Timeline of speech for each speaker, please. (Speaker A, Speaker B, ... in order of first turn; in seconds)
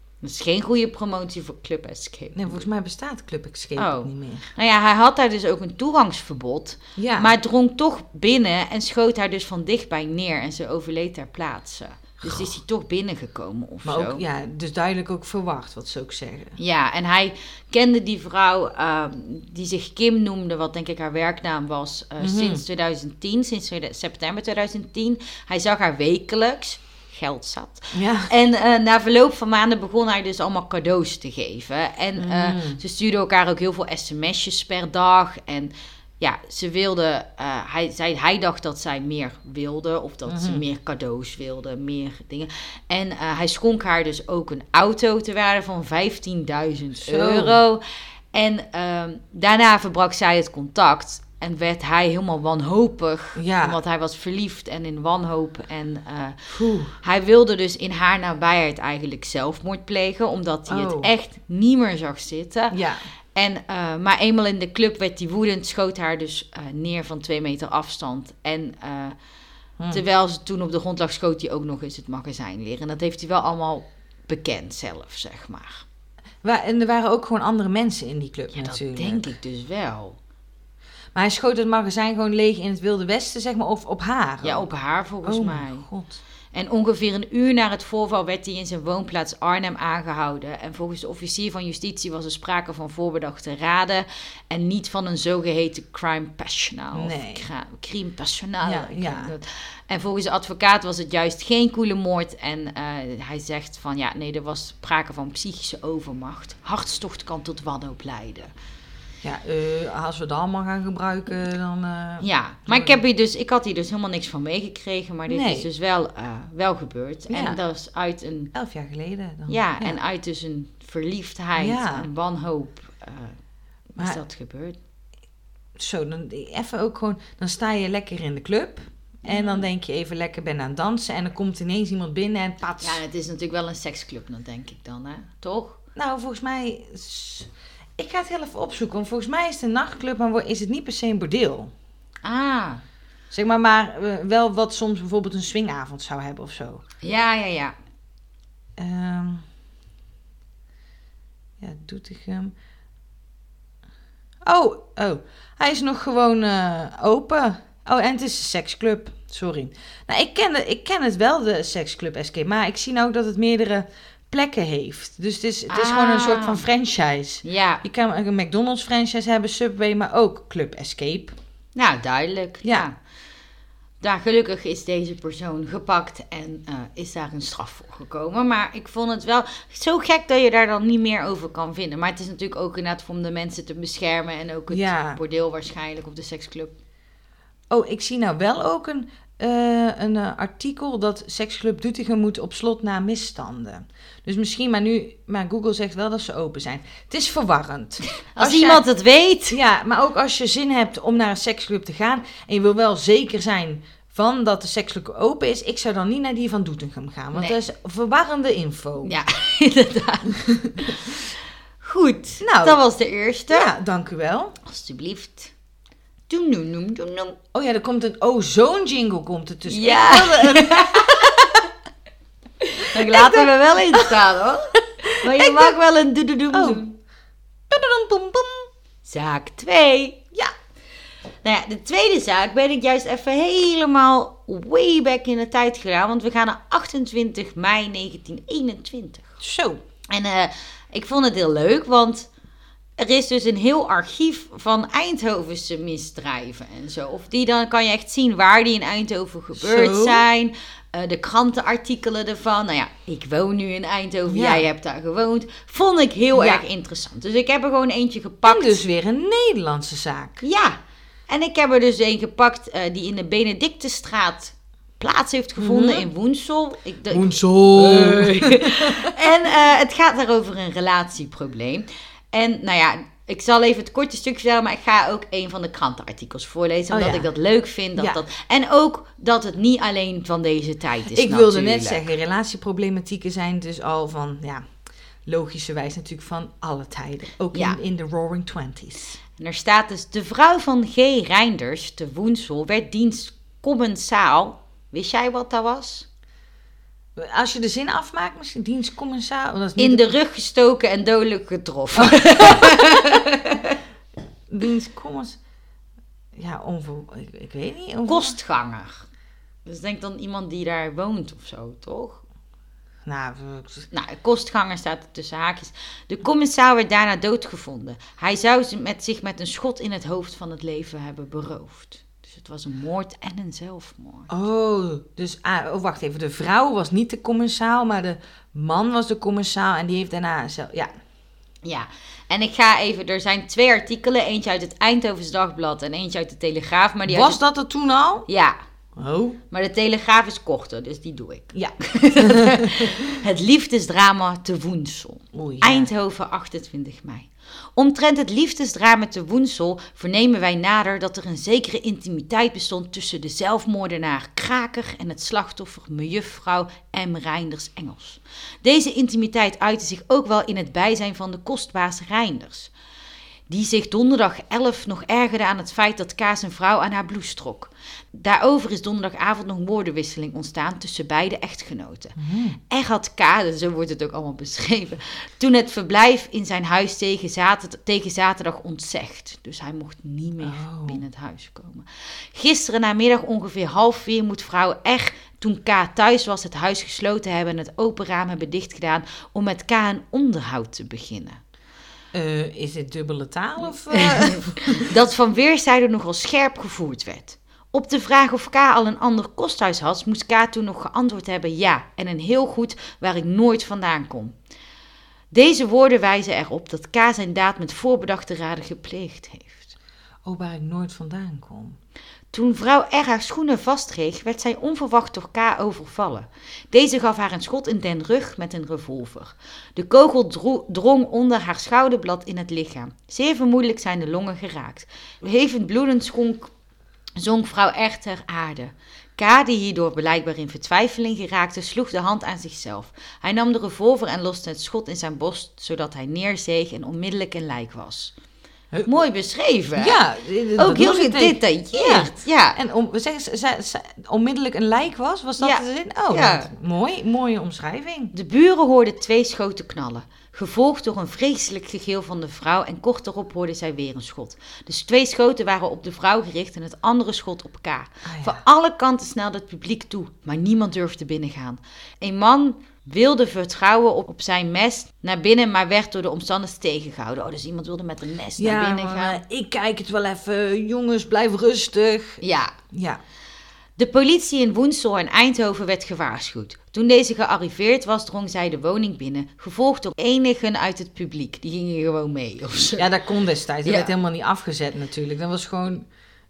Speaker A: 0.2-2.6, 3.8-14.2, 16.6-47.8, 48.3-56.4, 56.9-62.8, 63.3-69.2, 69.9-75.8, 78.5-80.2, 84.4-85.8, 86.5-108.5, 112.2-118.5, 119.5-123.4, 123.9-124.8, 129.2-129.7, 132.8-135.8, 142.2-142.8, 147.0-147.7, 165.7-166.6, 167.4-167.8, 171.7-172.9, 174.0-186.7, 198.3-199.6, 209.0-211.0, 211.8-213.7, 214.6-215.5, 216.3-217.4, 219.7-221.7, 222.6-226.9, 229.0-230.2, 231.4-239.4, 240.1-242.3, 243.0-258.8, 260.4-282.1, 289.4-296.1, 299.8-303.8, 308.1-309.1, 309.6-312.2, 313.9-324.3, 331.6-337.4, 338.3-338.6, 339.5-362.7, 363.5-372.1, 372.7-391.4, 393.9-404.3, 405.3-409.7, 412.3-426.5, 427.2-438.1, 438.9-440.0, 440.6-442.6, 445.4-446.5, 448.1-469.2, 472.2-472.5, 473.8-482.9, 483.6-483.9
Speaker B: 2.3-4.5, 7.0-7.3, 13.8-16.6, 22.2-22.6, 27.9-28.3, 32.1-32.8, 40.3-40.6, 47.0-47.6, 53.4-53.8, 56.5-56.9, 60.7-61.1, 62.7-63.0, 76.4-79.3, 81.1-84.7, 85.2-86.2, 96.9-97.5, 98.6-99.3, 109.2-113.0, 115.3-115.7, 117.3-117.6, 118.5-120.0, 121.6-122.1, 125.8-133.0, 135.9-141.7, 143.3-146.8, 148.8-149.4, 151.6-152.5, 154.4-171.3, 184.7-185.2, 187.7-198.8, 199.5-209.2, 210.3-210.8, 212.4-212.8, 213.5-214.6, 217.5-221.5, 222.8-224.1, 225.1-225.8, 226.5-226.8, 227.7-228.7, 239.4-239.8, 249.5-250.2, 254.3-254.7, 256.3-256.6, 258.4-260.4, 265.6-266.1, 267.1-269.1, 276.9-277.3, 277.9-278.2, 281.1-284.6, 285.2-289.2, 297.1-300.1, 301.9-303.0, 304.5-305.4, 306.4-308.4, 313.1-313.9, 324.3-330.9, 337.1-338.3, 339.0-339.4, 341.5-343.0, 345.3-345.9, 372.2-372.6, 380.4-381.0, 392.1-394.9, 410.2-411.8, 438.7-439.0, 439.8-448.1, 458.0-458.4, 468.4-473.0, 482.8-485.9